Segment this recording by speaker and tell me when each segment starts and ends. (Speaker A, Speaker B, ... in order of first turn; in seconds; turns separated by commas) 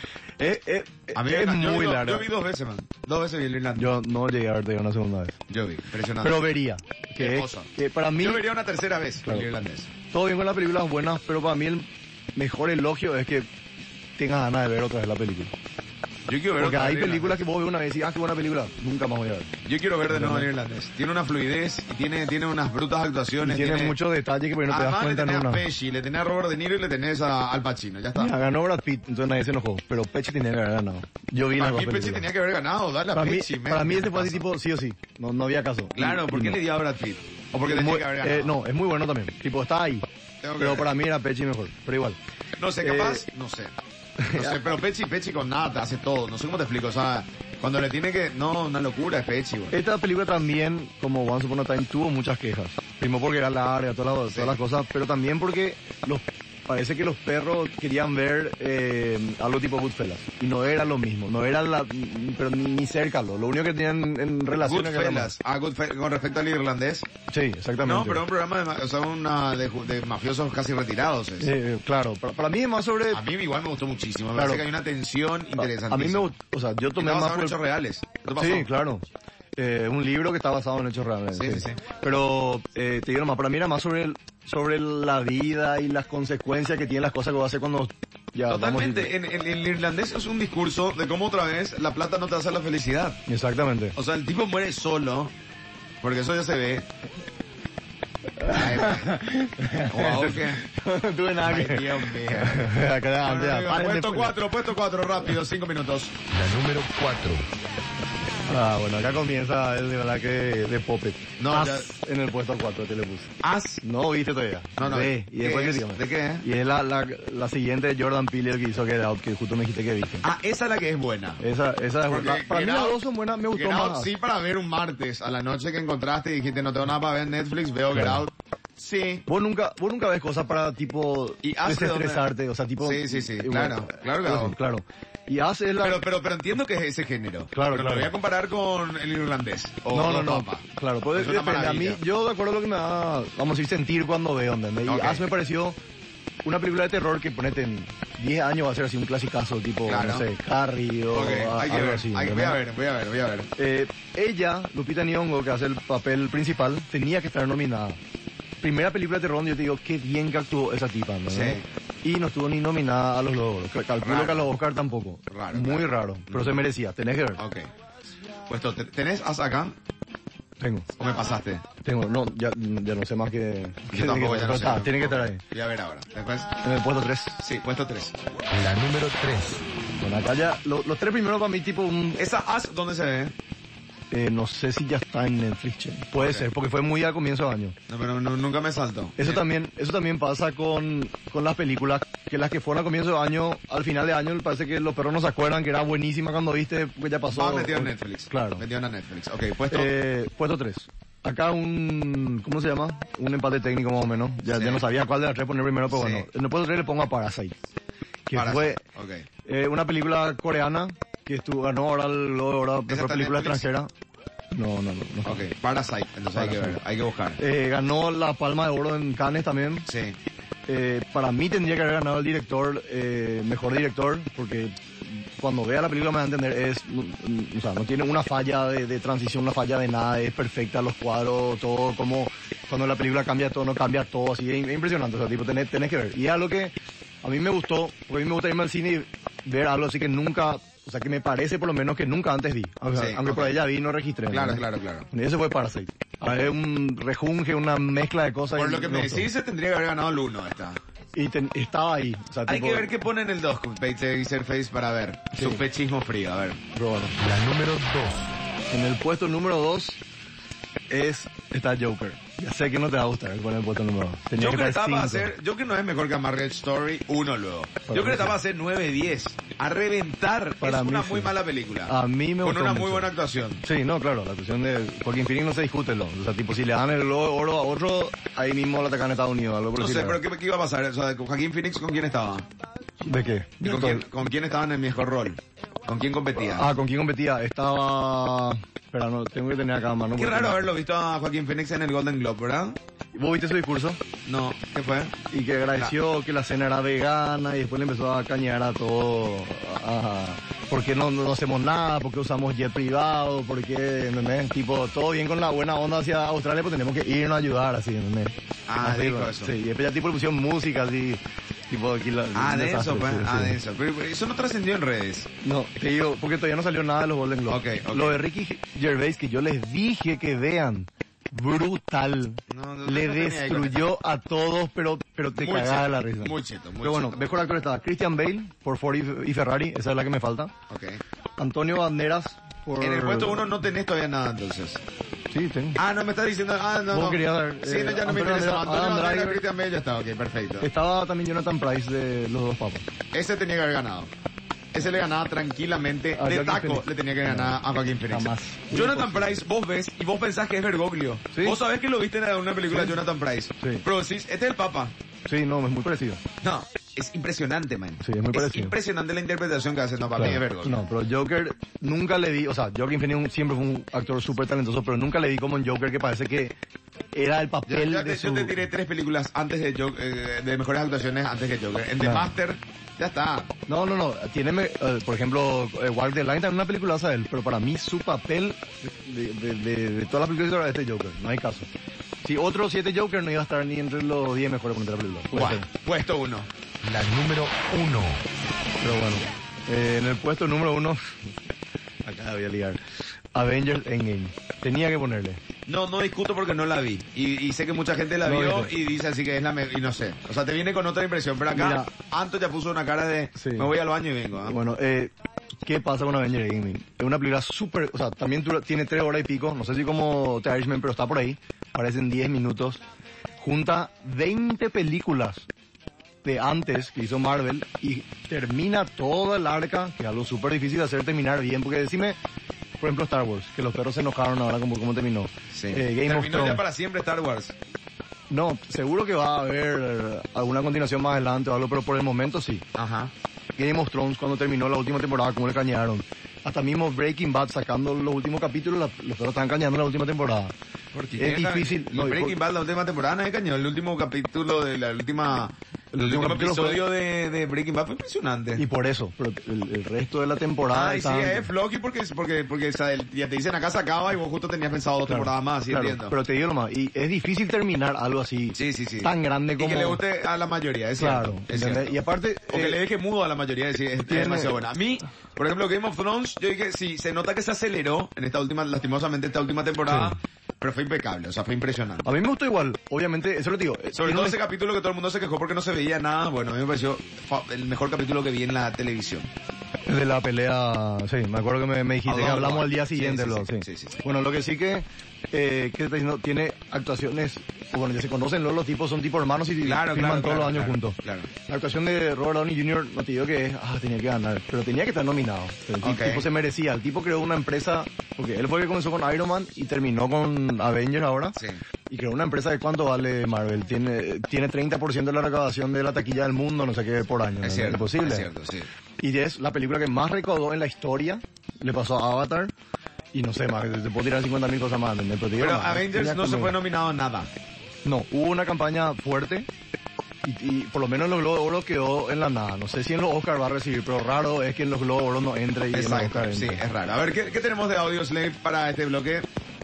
Speaker A: 0.4-2.3, Speaker B: 1.1-3.9, Speaker A: 3.8-5.4, Speaker B: 5.5-6.5, Speaker A: 6.2-8.4, Speaker B: 7.2-9.9, Speaker A: 10.1-13.5, Speaker A: 14.2-15.5, Speaker B: 16.3-17.4, Speaker A: 16.6-19.5, Speaker B: 19.6-23.9, Speaker A: 20.1-20.5, Speaker A: 23.4-25.6, Speaker B: 24.7-28.3, Speaker A: 28.1-32.2, Speaker B: 31.6-34.5, Speaker A: 33.1-36.6, Speaker B: 36.0-38.6, Speaker A: 37.6-42.2, Speaker B: 40.4-40.9, Speaker B: 42.6-43.7, Speaker A: 42.8-43.2, Speaker A: 44.2-44.6, Speaker B: 44.3-49.8, Speaker A: 49.7-65.3, Speaker B: 54.3-54.6, Speaker B: 64.6-67.1, Speaker A: 67.3-68.2, Speaker B: 67.8-71.5, Speaker A: 71.4-73.2, Speaker B: 73.1-76.3, Speaker A: 74.3-74.6, Speaker A: 75.6-77.6, Speaker B: 77.0-78.7, Speaker A: 78.4-79.0, Speaker A: 79.6-89.1, Speaker B: 81.3-81.8, Speaker B: 88.5-93.2, Speaker A: 93.3-93.9, Speaker B: 93.9-95.3, Speaker B: 96.0-96.9, Speaker A: 98.4-104.4, Speaker B: 98.5-99.2, Speaker B: 99.9-100.6, Speaker B: 101.4-106.1, Speaker C: 106.3-107.5, Speaker A: 108.5-120.2, Speaker B: 111.4-111.9, Speaker B: 113.4-113.8, Speaker B: 114.8-116.4, Speaker B: 120.2-121.4, Speaker A: 121.4-124.1, Speaker B: 122.1-123.0, Speaker B: 123.5-129.2, Speaker A: 127.9-128.2, Speaker A: 129.3-136.0, Speaker B: 131.4-132.3, Speaker B: 132.8-134.6, Speaker B: 135.8-142.0, Speaker A: 137.5-138.1, Speaker A: 139.9-145.8, Speaker B: 144.8-145.2, Speaker A: 146.4-152.6, Speaker B: 149.8-150.3, Speaker B: 151.1-153.5, Speaker A: 153.6-158.0, Speaker A: 158.6-167.4, Speaker B: 161.3-161.6, Speaker B: 164.0-164.5, Speaker B: 165.3-166.7, Speaker B: 167.4-167.7, Speaker B: 168.5-169.7, Speaker A: 170.6-170.9, Speaker B: 171.0-171.6, Speaker A: 171.8-175.4, Speaker B: 173.9-176.5, Speaker A: 176.6-177.4, Speaker B: 177.4-178.1, Speaker C: 178.5-179.6, Speaker A: 180.0-182.2, Speaker B: 182.2-183.3, Speaker A: 184.1-187.8, Speaker B: 186.2-186.5, Speaker B: 187.9-189.4, Speaker A: 189.2-198.6, Speaker B: 197.3-199.9, Speaker A: 199.7-207.5, Speaker B: 204.5-204.8, Speaker B: 205.9-206.3, Speaker A: 208.3-208.8, Speaker B: 208.3-209.2, Speaker A: 209.4-213.9, Speaker B: 212.9-213.6, Speaker A: 214.5-215.4, Speaker B: 215.2-217.4, Speaker A: 216.3-216.8, Speaker A: 217.4-219.8, Speaker B: 219.8-220.2, Speaker A: 220.7-249.3, Speaker B: 242.9-243.6, Speaker B: 244.3-245.1, Speaker B: 248.5-250.8, Speaker A: 251.2-252.9, Speaker B: 252.5-256.6, Speaker A: 255.3-255.6, Speaker A: 256.7-257.1, Speaker C: 257.2-258.3, Speaker A: 258.7-260.0, Speaker A: 260.9-265.3, Speaker B: 264.4-273.6, Speaker A: 267.9-268.4, Speaker A: 270.6-271.3, Speaker A: 271.9-273.1, Speaker A: 273.6-280.2, Speaker B: 279.8-282.4, Speaker A: 283.0-284.1, Speaker B: 283.6-286.7, Speaker A: 286.4-290.7, Speaker B: 290.1-292.8, Speaker A: 293.1-294.0, Speaker B: 294.2-295.2, Speaker A: 295.3-313.6, Speaker B: 308.7-309.6, Speaker B: 312.3-315.3, Speaker A: 315.4-330.5, Speaker B: 317.5-318.2, Speaker B: 322.5-323.9, Speaker B: 325.3-327.2, Speaker B: 330.7-331.0, Speaker A: 331.4-333.5, Speaker B: 332.8-334.8, Speaker A: 335.3-335.8, Speaker B: 335.8-340.7, Speaker A: 336.9-339.4, Speaker A: 340.6-342.8, Speaker B: 343.1-344.1, Speaker B: 344.7-354.9, Speaker A: 346.1-349.4, Speaker A: 351.3-351.6, Speaker A: 352.7-353.0, Speaker A: 353.6-353.8, Speaker A: 355.3-356.2, Speaker B: 356.4-360.8, Speaker A: 358.0-358.7, Speaker A: 360.1-366.5, Speaker A: 367.1-368.6, Speaker B: 367.7-373.5, Speaker A: 372.0-372.3, Speaker A: 373.7-381.7, Speaker A: 382.2-385.7, Speaker B: 385.3-386.5, Speaker C: 386.8-388.2, Speaker A: 388.8-391.3, Speaker A: 392.0-392.8, Speaker A: 393.3-395.4, Speaker B: 395.7-404.6, Speaker A: 398.2-398.7, Speaker A: 401.5-401.9, Speaker A: 403.4-403.7, Speaker A: 404.4-405.1, Speaker A: 405.6-412.8, Speaker A: 413.4-415.4, Speaker A: 416.2-422.1, Speaker A: 422.8-426.6, Speaker B: 425.5-427.5, Speaker A: 428.3-432.6, Speaker B: 432.7-433.1, Speaker A: 433.6-440.5, Speaker B: 440.9-448.6, Speaker A: 441.2-442.4, Speaker A: 445.9-446.9, Speaker A: 448.6-451.5, Speaker B: 450.7-456.1, Speaker A: 455.1-460.0, Speaker B: 458.5-472.1, Speaker A: 461.0-462.8, Speaker A: 464.1-464.6, Speaker A: 469.9-470.1, Speaker A: 472.0-474.4, Speaker B: 473.9-479.3, Speaker A: 479.9-501.4, Speaker B: 482.0-484.0, Speaker B: 489.6-491.3, Speaker B: 495.8-496.2, Speaker B: 501.4-501.6, Speaker A: 501.9-508.3, Speaker B: 507.4-508.7, Speaker A: 509.0-512.5, Speaker A: 513.1-516.5, Speaker B: 515.4-517.3, Speaker A: 517.8-519.5, Speaker A: 520.2-526.6, Speaker B: 525.7-529.3